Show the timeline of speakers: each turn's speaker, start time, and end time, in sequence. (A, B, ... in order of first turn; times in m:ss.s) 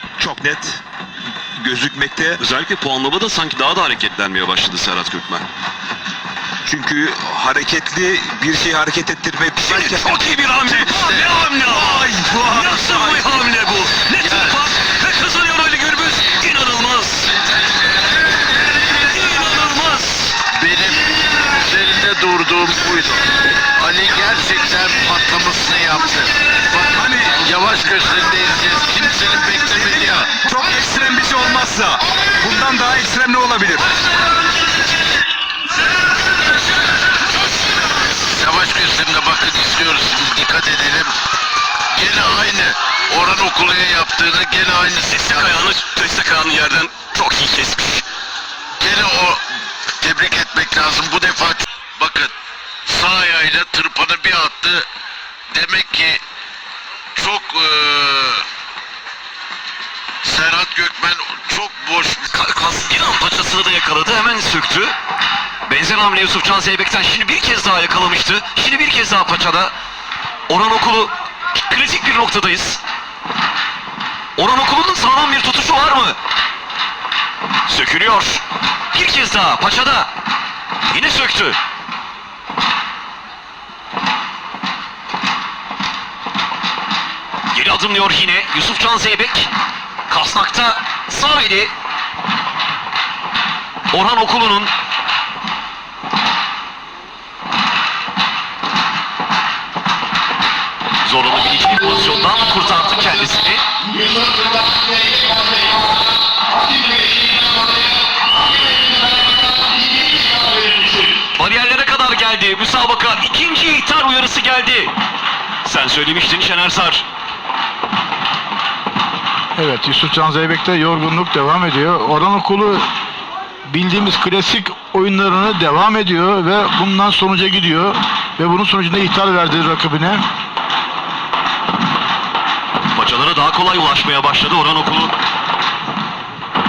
0:00.2-0:00.8 A
0:01.6-0:02.4 A
0:02.4-0:05.4 B
0:06.6-0:13.2 A
0:09.6-0:17.3 B
0:14.2-0:14.6 C
0:18.8-0:20.4 B
0:20.5-0:30.3 C
0:26.9-0:27.4 A
0:29.6-0:33.9 A
0:38.1-0:41.1 C
0:41.9-0:45.7 C
0:45.0-0:48.0 B
0:48.8-0:49.4 C
0:50.0-0:52.3 C
0:52.8-0:54.9 C
0:55.5-0:56.2 C
0:57.1-0:58.5 C
1:00.2-1:02.3 C
1:02.2-1:04.9 B
1:05.6-1:09.7 B
1:10.5-1:12.8 B
1:14.4-1:16.2 B
1:17.6-1:20.1 B
1:20.9-1:21.6 B
1:27.5-1:29.5 B
1:30.1-1:31.7 B
1:33.9-1:34.7 B
1:41.0-1:43.6 B
1:44.2-1:45.4 D
1:51.3-1:54.9 B
1:55.6-1:57.0 B
1:59.6-2:02.9 D
2:03.6-2:10.2 D
2:12.9-2:15.2 B